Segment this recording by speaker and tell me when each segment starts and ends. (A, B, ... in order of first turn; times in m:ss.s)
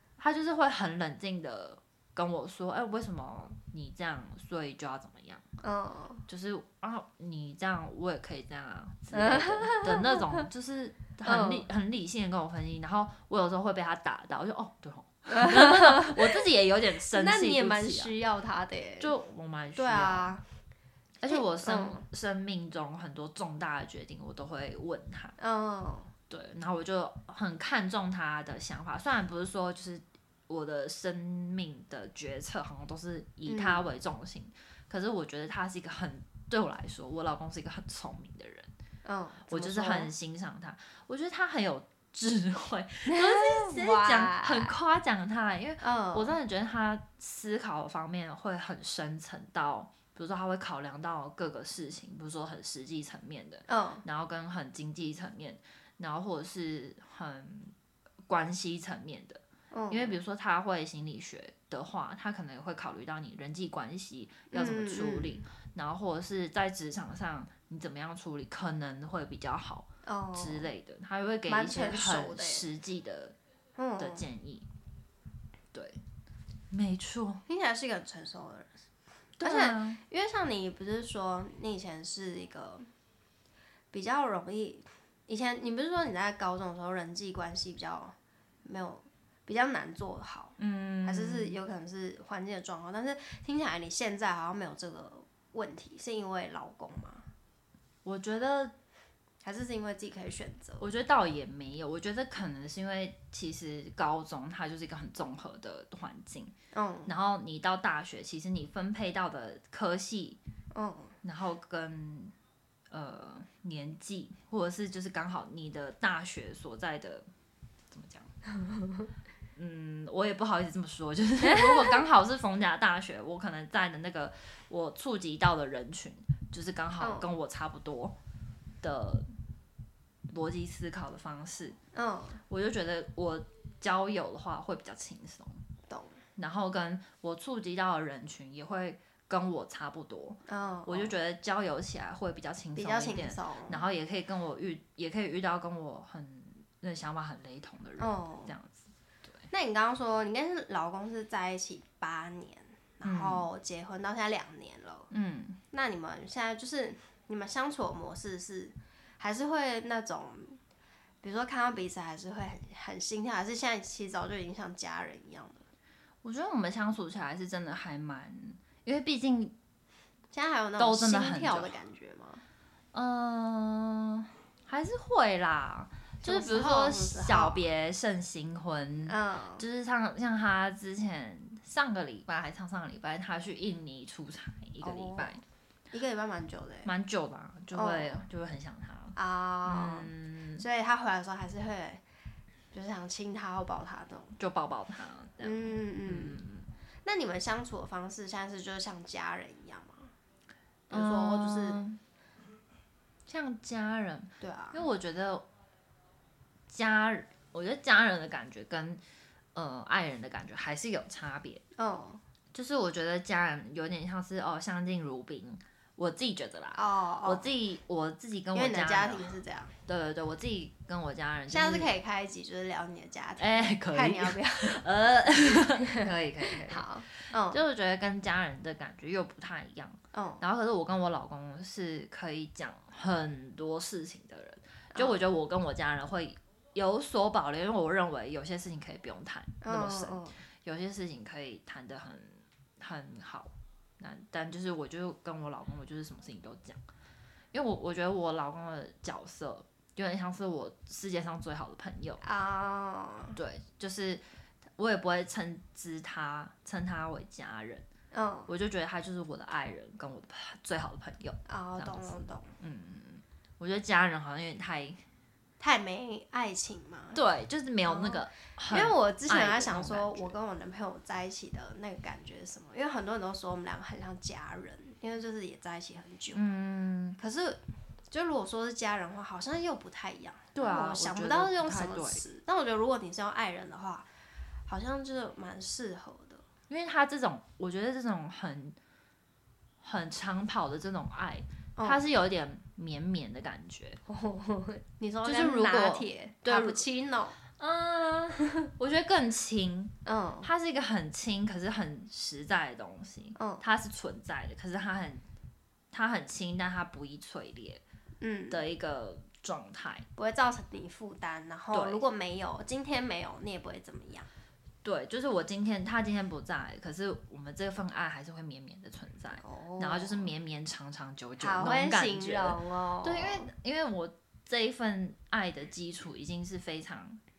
0:00.2-0:05.4 A
0:05.6-0:06.2 B
0:06.3-0:18.1 A
0:09.1-0:10.4 B
0:11.2-0:11.7 B
0:15.3-0:16.4 B
0:17.1-0:19.1 B
0:19.0-0:20.4 A
0:19.8-0:20.4 B
0:21.2-0:25.4 A
0:21.3-0:22.0 B
0:25.4-0:26.1 B
0:26.3-0:38.7 A
0:33.5-0:33.9 B
0:39.0-0:40.1 B
0:39.5-0:57.7 A
0:43.1-0:44.7 B
0:45.8-0:46.4 B
0:53.7-0:54.0 B
0:58.3-1:13.4 A
0:59.7-1:00.2 B
1:04.5-1:05.4 B
1:10.0-1:10.7 B
1:11.5-1:12.7 B
1:13.8-1:14.2 B
1:14.0-1:14.7 A
1:15.7-1:16.0 A
1:16.7-1:17.4 A
1:17.5-1:18.7 B
1:19.4-1:20.0 A
1:19.4-1:22.9 B
1:23.9-1:37.3 B
1:30.6-1:31.6 A
1:38.0-1:38.7 A
1:39.4-1:40.9 B
1:40.8-1:46.5 A
1:46.7-1:47.1 B
1:47.1-1:50.4 A
1:50.7-1:51.2 B
1:51.2-1:52.3 A
1:52.9-1:57.3 A
1:57.9-1:58.3 A
1:58.6-1:59.0 B
1:59.6-2:08.2 A
2:01.4-2:02.0 B
2:07.0-2:07.3 B
2:08.8-2:09.3 A
2:10.3-2:11.8 A
2:11.9-2:12.4 B
2:12.5-2:15.6 A
2:15.9-2:16.2 B
2:16.4-2:29.3 A
2:20.5-2:21.1 B
2:22.8-2:23.8 B
2:28.0-2:28.5 B
2:29.5-2:35.1 B
2:33.0-2:33.5 A
2:35.1-2:35.6 A
2:35.7-2:40.6 B
2:41.2-2:45.6 B
2:46.2-2:49.6 A
2:50.3-2:52.4 B
2:50.8-2:51.7 A
2:52.9-3:05.4 A
2:56.2-2:57.7 B
2:59.1-2:59.6 B
3:04.8-3:05.4 B
3:05.9-3:06.9 B
3:06.8-3:10.6 A
3:07.7-3:08.2 B
3:09.2-3:12.0 B
3:12.7-3:14.4 B
3:14.4-3:16.7 A
3:15.4-3:16.4 B
3:17.0-3:20.1 B
3:20.9-3:21.8 B
3:20.9-3:22.0 A
3:23.3-3:25.4 A
3:24.4-3:24.8 B
3:26.7-3:29.0 A
3:29.6-3:31.6 A
3:31.8-3:32.2 B
3:32.5-3:39.3 A
3:36.8-3:37.5 B
3:38.5-3:39.7 B
3:39.9-3:41.9 A
3:41.5-3:44.8 B
3:43.4-4:06.8 A
3:45.5-3:47.6 B
3:50.1-3:50.4 B
3:54.9-3:55.2 B
3:59.6-4:00.4 B
4:07.5-4:12.2 A
4:12.2-4:13.4 B
4:13.4-4:14.2 A
4:14.8-4:17.9 A
4:18.1-4:18.5 B
4:18.5-4:25.0 A
4:21.5-4:22.5 B
4:25.6-4:27.2 B
4:27.1-4:30.3 A
4:27.9-4:36.5 B
4:36.3-4:37.2 A
4:37.2-4:37.6 B
4:38.1-4:44.1 B
4:40.6-4:42.2 A
4:44.7-4:46.4 B
4:46.7-4:48.8 A
4:49.8-4:54.0 A
4:51.8-4:52.0 B
4:54.1-4:57.4 B
4:55.2-4:56.9 A
4:57.5-5:05.2 A
5:00.1-5:00.5 B
5:03.4-5:03.6 B
5:05.9-5:07.8 A
5:08.2-5:08.6 B
5:08.5-5:10.1 A
5:10.2-5:14.3 B
5:11.7-5:12.0 A
5:14.8-5:27.2 A
5:19.4-5:20.3 B
5:21.4-5:23.5 B